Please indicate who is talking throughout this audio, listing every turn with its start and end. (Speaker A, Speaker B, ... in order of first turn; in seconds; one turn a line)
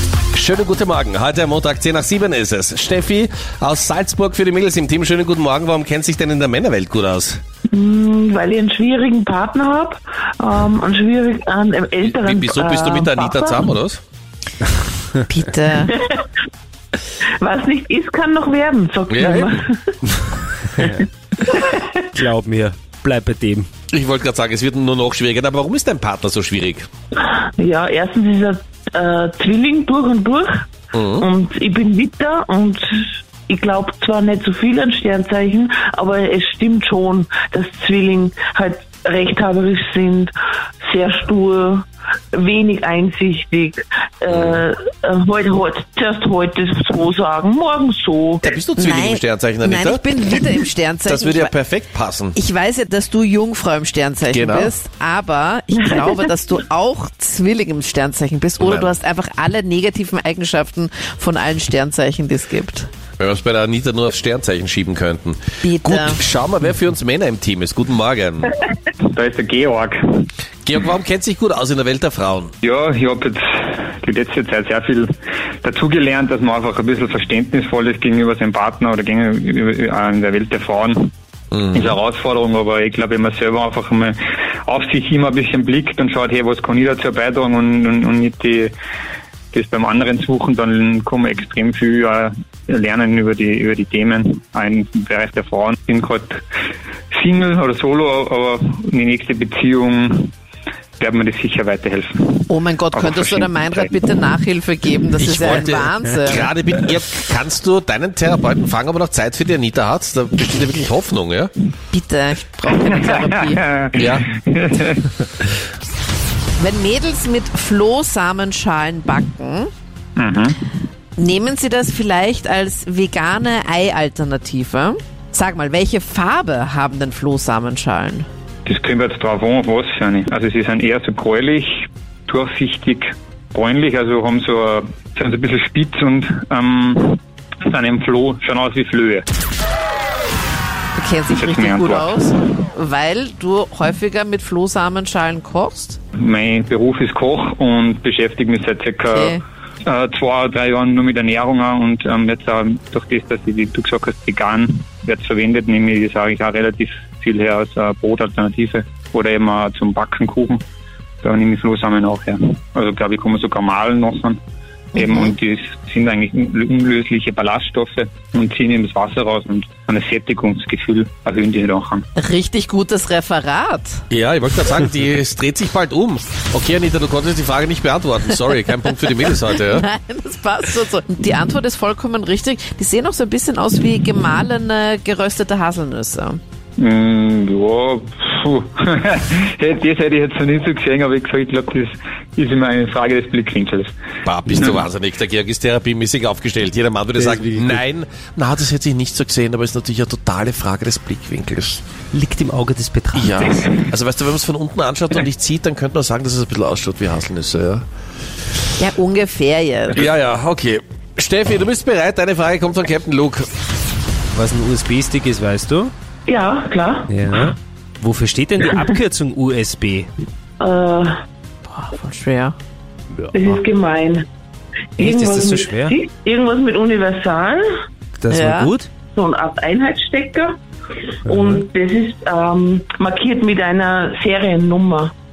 Speaker A: 0.3-7.4
Speaker B: 7.7-13.7
Speaker A: 12.1-14.0
Speaker C: 15.2-16.0
Speaker B: 16.0-16.2
Speaker B: 17.4-19.9
Speaker A: 19.1-19.6
Speaker D: 20.8-21.1
Speaker D: 22.1-23.7
Speaker A: 23.9-26.9
Speaker B: 27.2-30.7
Speaker A: 30.9-31.2
Speaker B: 31.2-48.4
Speaker A: 44.3-44.6
Speaker A: 48.4-50.1
Speaker C: 48.8-51.5
Speaker A: 51.0-52.4
Speaker C: 52.4-62.9
Speaker A: 54.3-54.8
Speaker A: 58.6-58.9
Speaker A: 63.2-68.5
Speaker C: 65.6-66.2
Speaker E: 69.1-70.2
Speaker A: 70.7-72.5
Speaker E: 72.6-75.1
Speaker E: 75.6-81.1
Speaker A: 81.5-81.9
Speaker E: 81.7-88.7
Speaker E: 89.5-96.4
Speaker E: 97.1-100.3
Speaker E: 101.0-103.9
Speaker C: 102.5-106.5
Speaker A: 105.2-111.5
Speaker C: 111.9-113.6
Speaker E: 112.9-115.1
Speaker A: 114.0-114.3
Speaker C: 116.6-119.7
Speaker E: 120.2-120.6
Speaker C: 121.2-128.3
Speaker E: 128.7-139.2
Speaker C: 141.0-146.0
Speaker E: 141.3-142.2
Speaker E: 146.2-160.6
Speaker C: 149.1-149.4
Speaker E: 161.2-164.4
Speaker C: 164.9-165.3
Speaker E: 164.9-172.1
Speaker C: 172.2-174.0
Speaker A: 174.1-179.9
Speaker C: 179.6-186.4
Speaker E: 186.8-193.9
Speaker A: 194.2-201.8
Speaker D: 197.2-197.8
Speaker D: 202.1-203.6
Speaker A: 203.2-207.8
Speaker C: 208.8-210.1
Speaker A: 209.9-213.5
Speaker D: 214.3-215.9
Speaker B: 216.3-217.1
Speaker D: 217.1-220.1
Speaker B: 220.6-221.1
Speaker C: 221.7-222.6
Speaker D: 223.1-223.5
Speaker B: 223.3-224.3
Speaker D: 225.0-226.0
Speaker B: 225.0-227.6
Speaker D: 228.2-228.9
Speaker C: 228.3-228.7
Speaker B: 229.1-230.6
Speaker B: 231.3-235.1
Speaker D: 231.3-231.6